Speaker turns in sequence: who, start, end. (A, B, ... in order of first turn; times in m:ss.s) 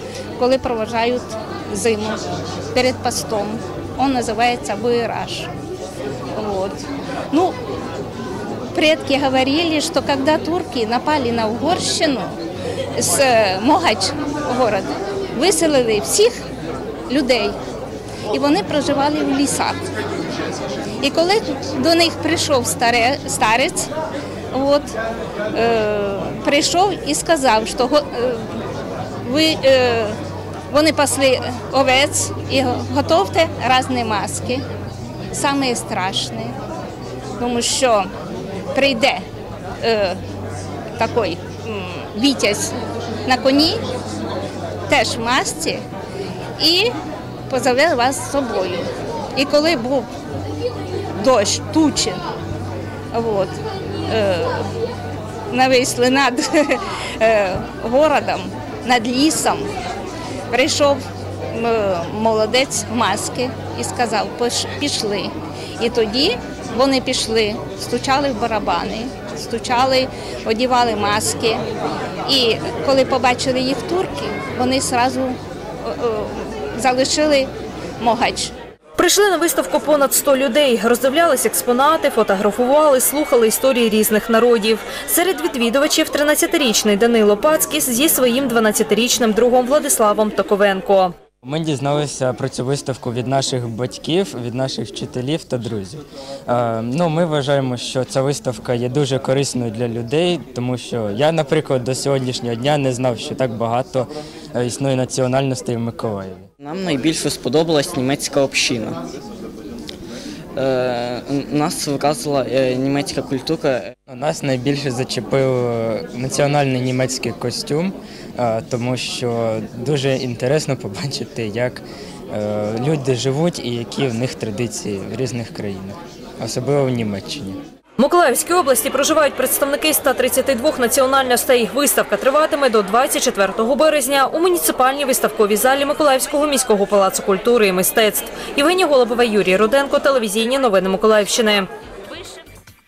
0:00.4-0:05.5 A
0:06.3-0:06.8 A
0:07.3-0:07.6 A
0:08.7-0:12.4 A
0:13.0-0:16.3 A
0:17.1-0:17.6 A
0:18.3-0:19.9 A
0:21.0-0:23.9 A
0:24.5-0:24.9 A
0:25.5-0:28.5 A
0:29.2-0:30.2 A
0:30.7-0:34.6 A
0:35.3-0:36.5 A
0:37.4-0:38.1 A
0:38.7-0:39.2 A
0:39.8-0:40.2 A
0:41.0-0:43.8 A
0:44.9-0:45.8 A
0:46.6-0:46.9 A
0:47.5-0:50.1 A
0:51.2-0:52.2 A
0:53.1-0:53.6 A
0:54.1-0:54.6 A
0:55.5-0:59.7 A
1:00.5-1:11.6 A
1:12.3-1:17.5 A
1:18.0-1:18.5 A
1:19.0-1:31.1 B
1:31.4-1:46.5 C
1:46.6-1:49.0 D
1:50.6-1:53.9 D
1:54.1-2:07.6 C
2:08.0-2:21.7 B